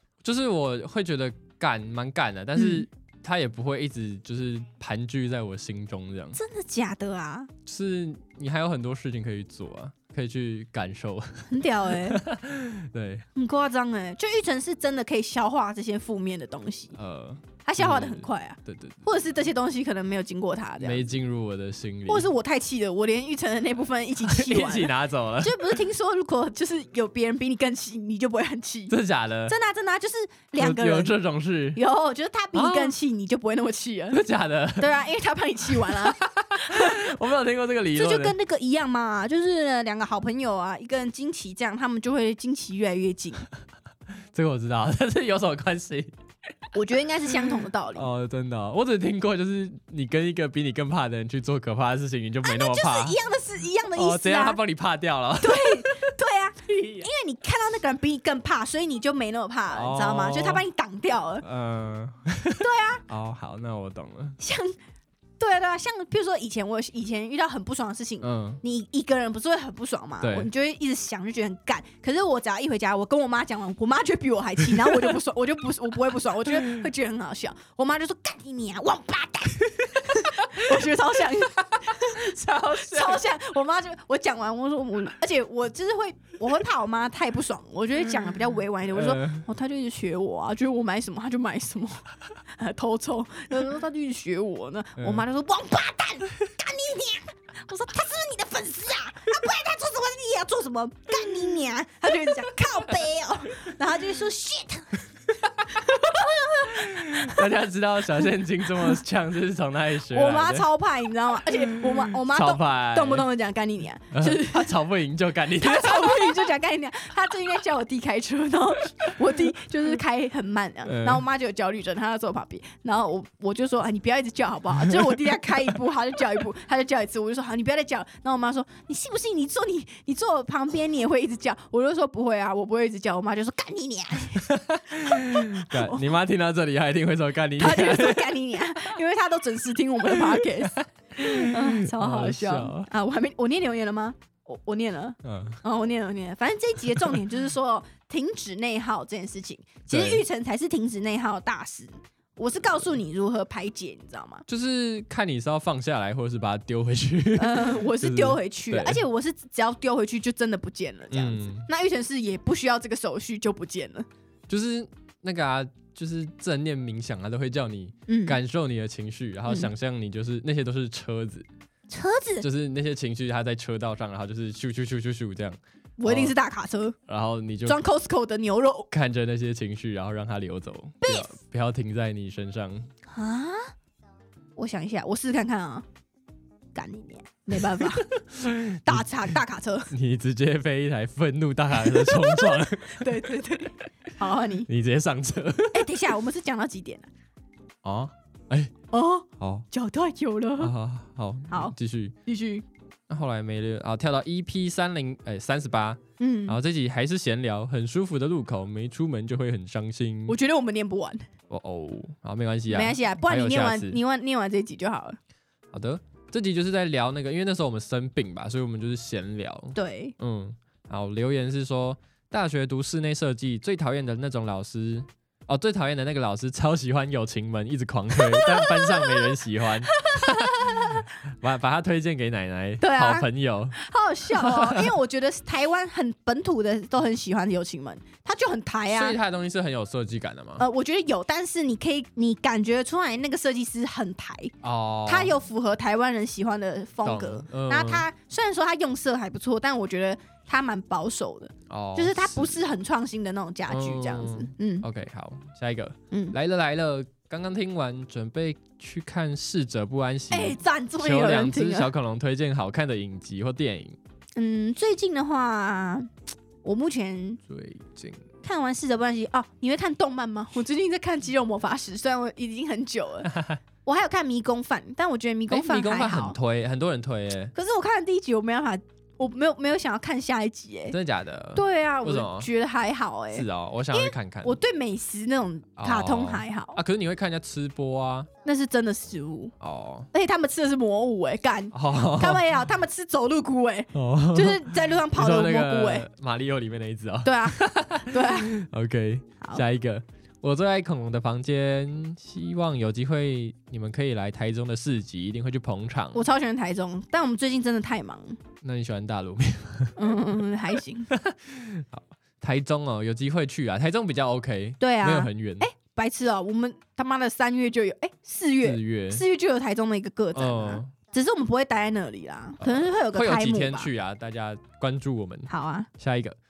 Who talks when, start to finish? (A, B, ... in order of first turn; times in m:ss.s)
0:00.2-0:06.4 A
0:02.6-0:02.9 B
0:06.4-0:07.5 B
0:07.7-0:13.3 A
0:11.5-0:12.2 B
0:13.4-0:17.0 B
0:17.0-0:19.0 A
0:17.6-0:21.1 B
0:20.8-0:22.3 A
0:22.1-0:29.0 B
0:24.2-0:25.8 A
0:28.9-0:29.6 A
0:29.5-0:31.2 B
0:30.6-0:31.8 A
0:31.8-0:34.2 B
0:32.5-0:33.0 A
0:34.1-0:35.0 A
0:34.8-0:37.0 B
0:35.7-0:38.4 A
0:37.9-0:43.5 B
0:44.3-0:46.1 A
0:46.8-0:48.1 B
0:48.0-0:53.2 A
0:52.4-0:54.6 B
0:53.9-0:56.1 A
0:55.4-1:01.4 B
0:56.8-0:57.0 A
0:59.7-1:00.6 A
1:01.4-1:04.4 A
1:02.6-1:03.0 B
1:04.4-1:04.8 B
1:05.4-1:45.0 B
1:08.2-1:08.6 A
1:10.2-1:10.5 A
1:20.1-1:20.8 A
1:21.6-1:23.2 A
1:28.9-1:29.4 A
1:35.0-1:35.2 A
1:45.7-1:47.4 B
1:45.8-1:50.7 A
1:50.1-1:54.7 B
1:51.5-1:53.3 A
1:54.1-1:56.5 A
1:55.6-2:14.6 B
2:00.8-2:01.2 A
2:14.4-2:18.3 A
2:15.1-2:16.0 B
2:17.6-2:34.4 B
2:20.1-2:22.9 A
2:25.2-2:25.6 A
2:27.0-2:27.2 A
2:29.9-2:30.2 A
2:34.5-2:39.0 A
2:37.4-2:44.1 B
2:41.1-2:41.7 A
2:44.5-2:51.5 A
2:48.1-2:48.4 B
2:51.9-2:52.5 B
2:52.4-2:56.4 A
2:56.0-2:57.0 B
2:57.1-2:57.8 A
2:57.7-2:58.9 B
2:58.9-3:02.9 A
3:01.0-3:01.4 B
3:03.1-3:03.7 B
3:04.6-3:05.8 B
3:06.8-3:08.1 B
3:07.6-3:09.3 A
3:08.8-3:09.9 B
3:09.9-3:13.4 A
3:11.8-3:14.7 B
3:14.7-3:16.0 A
3:15.7-3:17.1 B
3:17.8-3:18.7 A
3:18.9-3:20.7 B
3:19.4-3:19.7 A
3:20.6-3:22.2 A
3:21.5-3:22.6 B
3:23.1-3:30.4 A
3:26.2-3:26.6 B
3:30.3-3:31.2 B
3:31.5-3:34.0 A
3:32.7-3:35.2 B
3:35.7-3:53.8 A
3:39.8-3:40.2 B
3:48.2-3:49.3 B
3:49.9-3:51.0 B
3:52.8-3:59.2 B
3:54.3-3:54.9 A
3:58.9-4:00.6 A
4:00.6-4:04.5 B
4:04.6-4:05.4 A
4:05.1-4:14.9 B
4:07.0-4:08.0 A
4:11.7-4:12.7 A
4:13.7-4:24.0 A
4:16.1-4:16.4 B
4:20.3-4:21.9 B
4:24.4-4:26.1 B
4:26.6-4:27.4 B
4:27.5-4:28.2 A
4:28.4-4:36.4 B
4:33.3-4:33.6 A
4:35.5-4:37.5 A
4:37.6-4:41.0 B
4:40.9-4:42.5 A
4:41.6-4:46.8 B
4:43.3-4:44.6 A
4:45.8-4:48.3 A
4:48.4-4:49.5 B
4:49.6-4:50.1 A
4:50.1-4:56.1 B
4:51.7-4:52.4 A
4:53.9-5:06.3 A
4:57.2-4:58.6 B
5:06.1-5:08.4 B
5:08.6-5:10.2 A
5:10.0-5:11.1 B
5:11.1-5:15.7 A
5:14.8-5:23.9 B
5:18.6-5:19.2 A
5:20.3-5:20.9 A
5:22.6-5:26.4 A
5:25.5-5:25.9 B